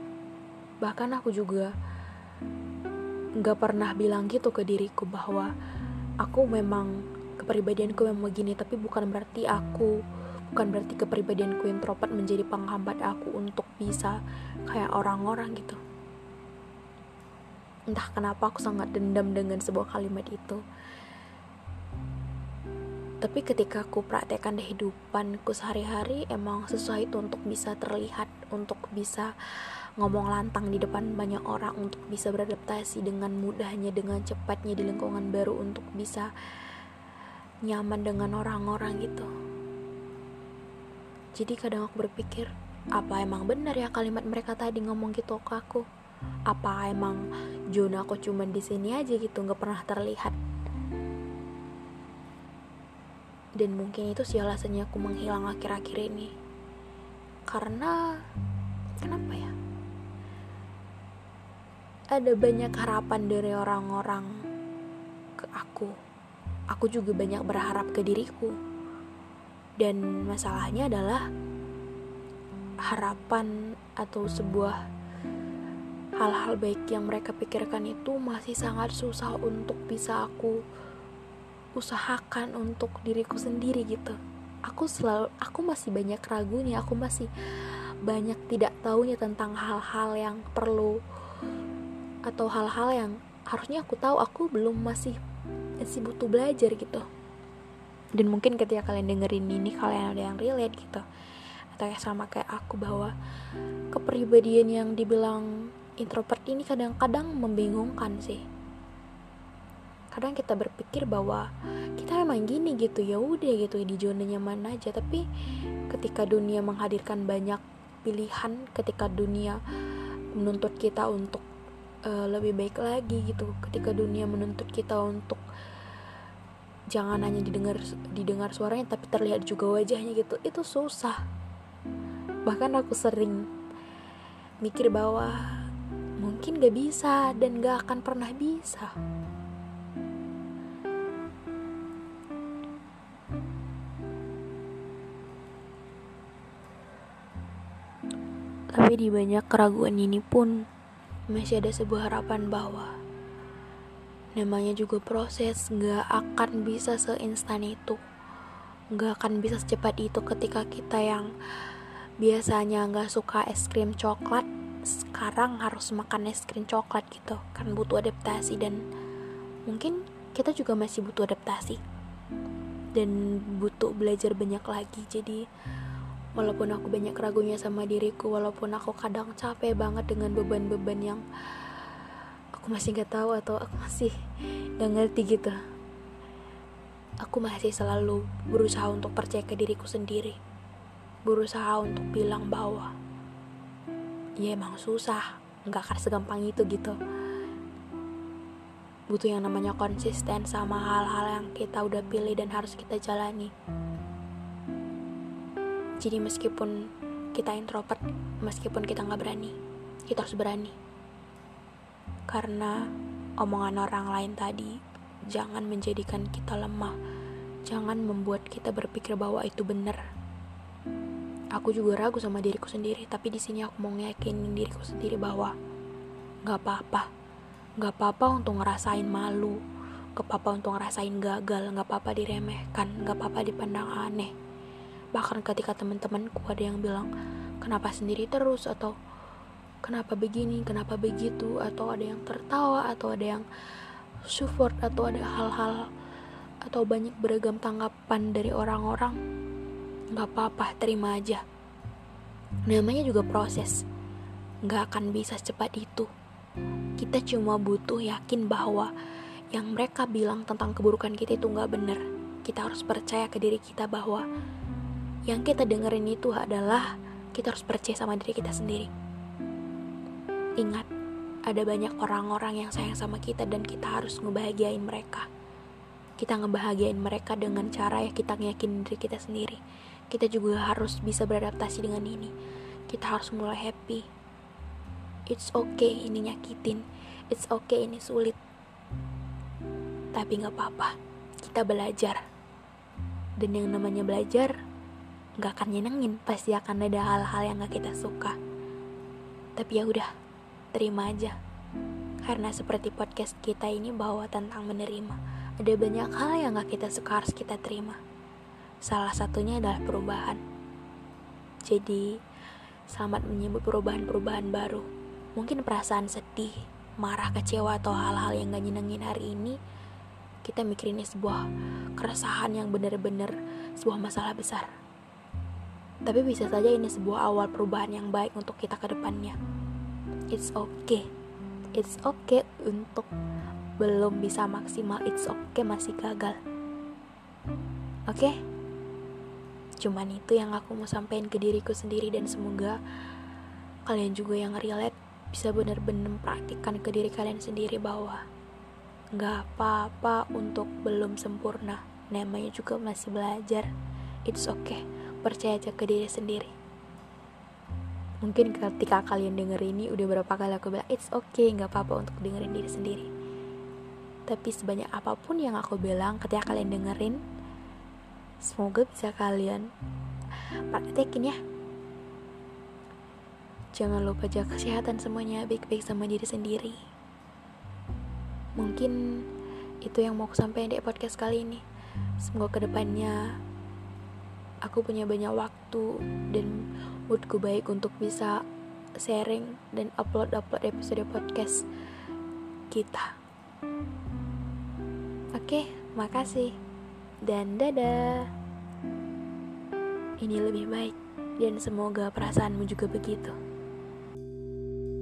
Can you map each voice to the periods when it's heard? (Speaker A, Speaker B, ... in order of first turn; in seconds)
Speaker A: 0.8-1.7, 3.4-5.5, 6.2-9.9, 10.5-14.2, 14.7-15.8, 17.9-20.6, 23.2-29.3, 30.0-36.3, 37.6-39.3, 41.4-45.8, 46.5-47.2, 47.7-50.4, 53.6-56.3, 57.5-58.0, 59.0-59.5, 62.1-64.3, 65.4-65.9, 66.7-68.5, 69.8-71.2, 72.9-74.8, 76.2-80.6, 81.8-84.2, 84.7-87.3, 88.1-91.0, 92.3-95.2, 95.8-97.1, 98.2-101.0, 101.7-103.1, 103.9-108.4, 110.1-111.5, 112.0-115.2, 115.9-119.6, 120.3-121.4, 122.1-125.4, 126.9-131.2, 132.5-133.4, 134.6-135.4, 136.2-138.9, 148.7-150.6, 151.3-152.9, 154.4-158.0, 158.9-161.3, 162.2-168.8, 169.7-171.8, 172.9-175.4, 176.4-181.2, 182.6-184.1, 184.8-185.6, 187.2-190.4, 191.3-192.9, 194.4-197.0, 199.1-203.5, 206.0-206.7, 207.3-209.6, 210.1-210.8, 212.3-212.8, 213.4-214.8, 215.3-216.9, 217.7-220.0, 221.6-225.5, 226.4-227.1, 227.8-229.6, 230.2-234.3, 235.1-237.1, 237.6-238.9, 239.8-243.4, 244.3-245.9, 246.7-249.2, 250.1-251.4, 252.7-253.7, 254.7-256.1, 257.0-258.9, 259.5-264.2, 265.3-268.9, 270.6-270.9, 271.5-275.3, 276.2-282.3, 282.9-284.0, 285.3-288.4, 290.1-292.2, 293.4-294.5, 295.4-298.4, 299.6-300.1, 300.7-301.3, 302.2-308.0, 308.9-310.4, 311.6-312.1, 312.9-319.6, 320.4-321.4, 322.0-324.7, 326.1-329.4, 330.3-331.0, 331.8-333.1, 333.8-336.4, 338.1-338.3, 339.8-342.8, 343.9-348.2, 349.1-353.7, 354.3-356.5, 358.2-363.1, 364.3-367.2, 368.4-369.7, 370.7-371.4, 373.7-376.8, 378.6-379.0, 379.8-381.6, 382.2-383.2, 384.6-386.5, 387.1-388.4, 389.0-391.6, 392.7-393.1, 395.4-396.6, 397.3-398.3, 400.2-403.3